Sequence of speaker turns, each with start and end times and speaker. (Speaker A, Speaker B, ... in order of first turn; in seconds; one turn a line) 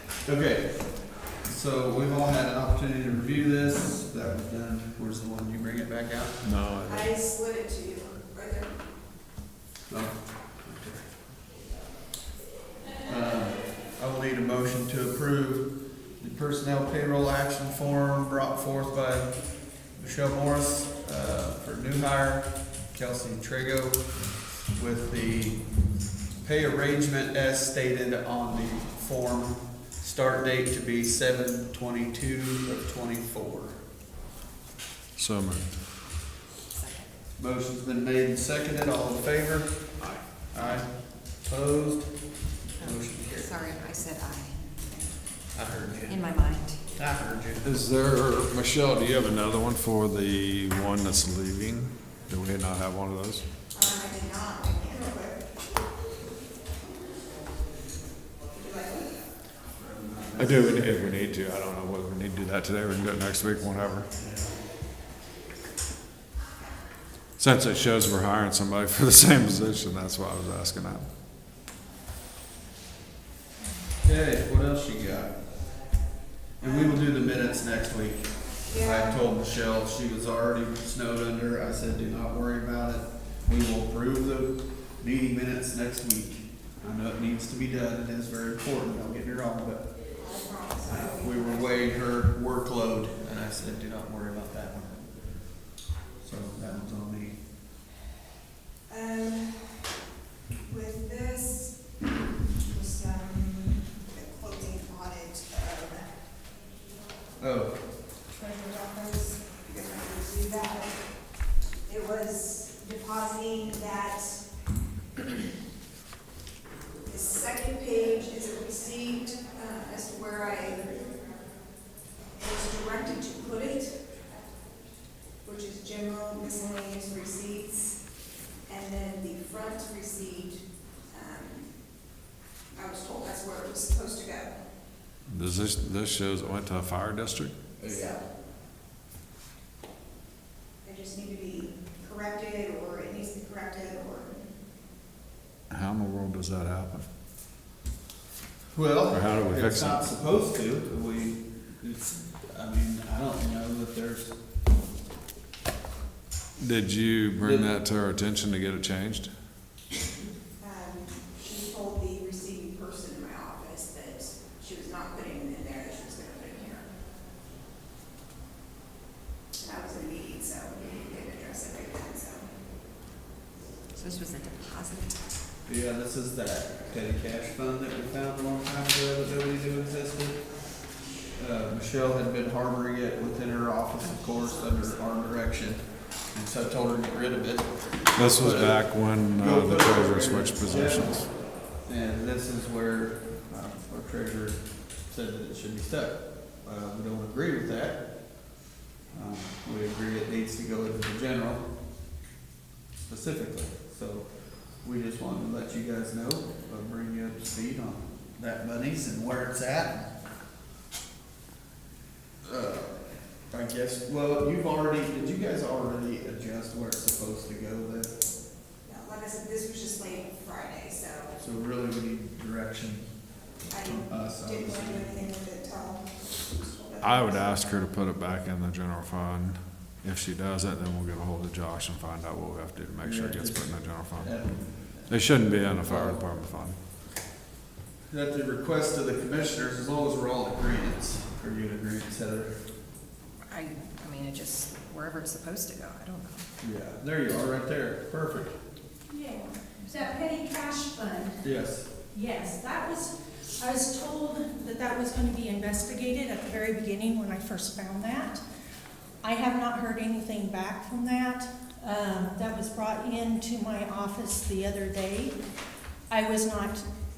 Speaker A: 0.2-6.6
Speaker B: 6.4-7.1
Speaker C: 6.8-8.7
Speaker A: 9.9-11.2
Speaker A: 13.0-33.8
Speaker B: 35.1-35.7
Speaker D: 36.7-37.1
Speaker A: 37.4-43.6
Speaker D: 42.8-44.8
Speaker C: 44.8-45.1
Speaker A: 45.5-47.7
Speaker D: 46.0-46.8
Speaker B: 47.6-53.5
Speaker C: 53.7-55.5
Speaker C: 58.5-59.3
Speaker A: 59.8-61.2
Speaker B: 60.4-64.1
Speaker A: 64.1-64.6
Speaker B: 67.4-71.1
Speaker A: 74.0-75.4
Speaker A: 76.6-89.9
Speaker C: 76.6-77.1
Speaker C: 78.7-79.3
Speaker C: 90.2-91.9
Speaker A: 90.9-95.6
Speaker A: 96.2-97.4
Speaker C: 98.9-99.8
Speaker C: 100.6-101.9
Speaker C: 102.7-106.1
Speaker A: 107.4-107.8
Speaker C: 108.3-111.0
Speaker C: 111.8-114.4
Speaker C: 117.0-121.3
Speaker C: 122.4-124.0
Speaker C: 125.4-128.0
Speaker C: 128.7-131.7
Speaker C: 132.7-134.6
Speaker B: 135.3-137.5
Speaker A: 137.8-138.2
Speaker C: 137.9-138.2
Speaker C: 140.8-144.4
Speaker B: 145.7-147.1
Speaker A: 148.7-154.3
Speaker B: 149.1-150.0
Speaker B: 156.6-159.3
Speaker A: 157.4-157.8
Speaker C: 160.6-166.8
Speaker C: 169.6-172.5
Speaker D: 173.9-175.3
Speaker A: 175.7-180.5
Speaker A: 181.3-201.7
Speaker D: 184.1-184.7
Speaker B: 188.1-191.3
Speaker A: 203.1-210.1
Speaker A: 212.4-218.2
Speaker C: 218.8-221.3
Speaker A: 221.4-223.1
Speaker C: 223.7-227.8
Speaker A: 223.7-225.2
Speaker B: 227.0-236.8
Speaker A: 233.0-236.2
Speaker A: 238.1-242.6
Speaker D: 243.5-246.5
Speaker A: 246.6-248.6
Speaker E: 249.1-251.4
Speaker A: 251.4-251.9
Speaker E: 252.1-258.4
Speaker E: 259.2-265.4
Speaker E: 266.1-266.9